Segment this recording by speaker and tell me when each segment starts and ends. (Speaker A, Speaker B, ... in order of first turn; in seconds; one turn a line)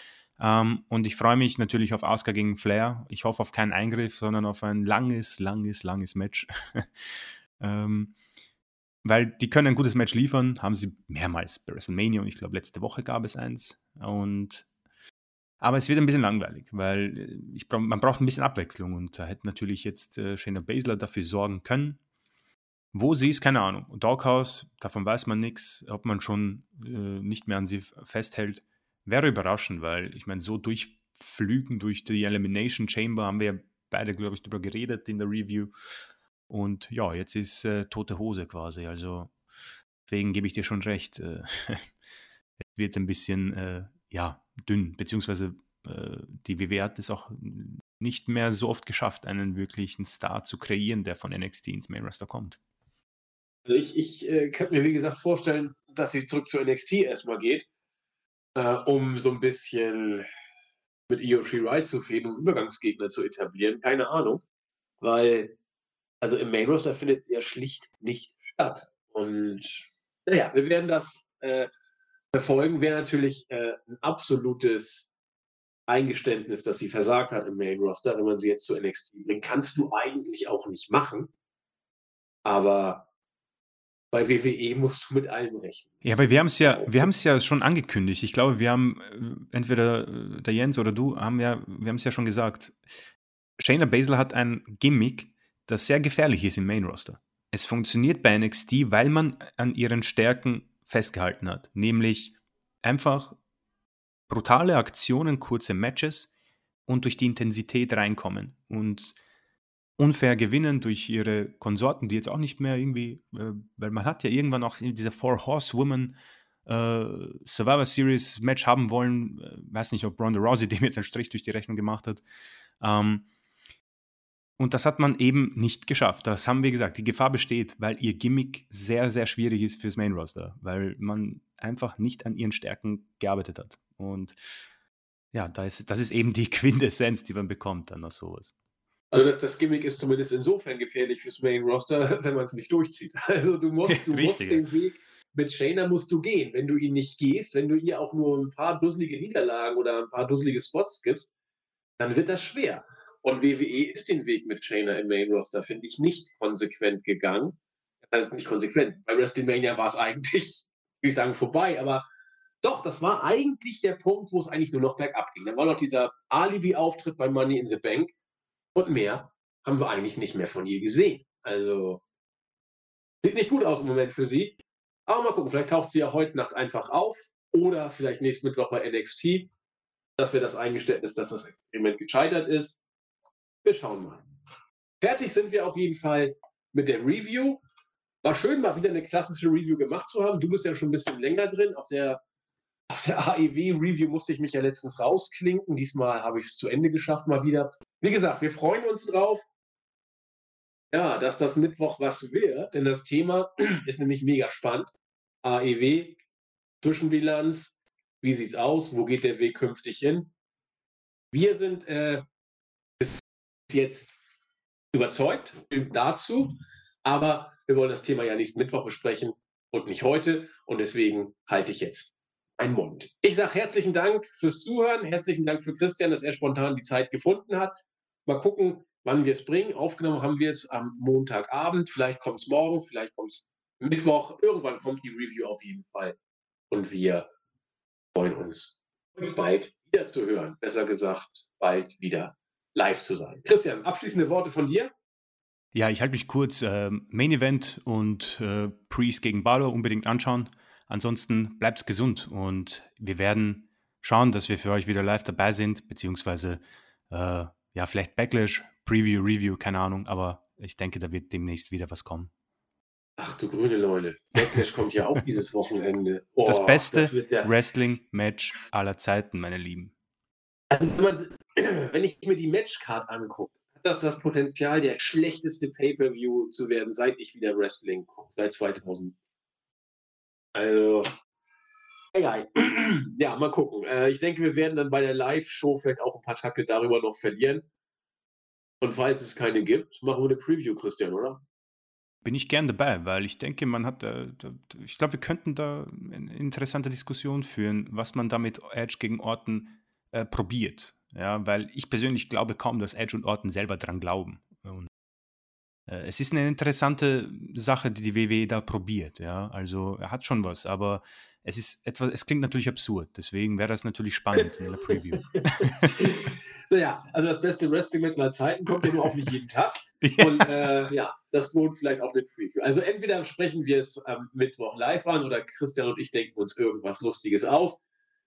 Speaker A: 0.4-8.1
Speaker A: 9.0-14.7
Speaker A: 15.6-22.0
Speaker A: 22.9-35.7
Speaker A: 36.5-39.3
Speaker A: 40.1-41.9
Speaker A: 42.7-52.6
Speaker B: 53.6-57.7
Speaker B: 58.5-60.3
Speaker B: 61.1-64.4
Speaker B: 65.0-65.5
Speaker B: 66.2-71.7
Speaker B: 72.3-75.1
Speaker B: 75.9-81.3
Speaker B: 82.4-83.1
Speaker B: 84.1-87.1
Speaker A: 86.0-92.8
Speaker A: 93.6-103.4
Speaker A: 104.3-106.3
Speaker A: 106.9-109.2
Speaker A: 110.0-122.2
Speaker A: 122.8-123.3
Speaker A: 124.6-134.4
Speaker A: 135.3-138.5
Speaker B: 139.1-151.3
Speaker A: 143.8-144.7
Speaker B: 152.0-162.0
Speaker B: 162.6-168.1
Speaker B: 168.7-172.0
Speaker B: 173.2-179.5
Speaker B: 180.2-182.8
Speaker B: 183.6-184.2
Speaker B: 185.0-187.6
Speaker B: 188.2-192.2
Speaker B: 192.9-199.5
Speaker B: 200.9-204.9
Speaker B: 205.4-206.2
Speaker B: 206.8-210.3
Speaker B: 211.3-212.2
Speaker B: 213.0-214.1
Speaker B: 214.9-236.1
Speaker B: 236.7-237.3
Speaker B: 238.1-244.9
Speaker A: 245.7-262.3
Speaker B: 263.2-267.5
Speaker A: 266.4-269.9
Speaker B: 270.7-279.1
Speaker B: 280.5-281.1
Speaker B: 282.1-287.6
Speaker B: 288.8-291.4
Speaker A: 292.2-304.9
Speaker A: 305.9-316.0
Speaker B: 314.6-327.8
Speaker A: 320.0-320.5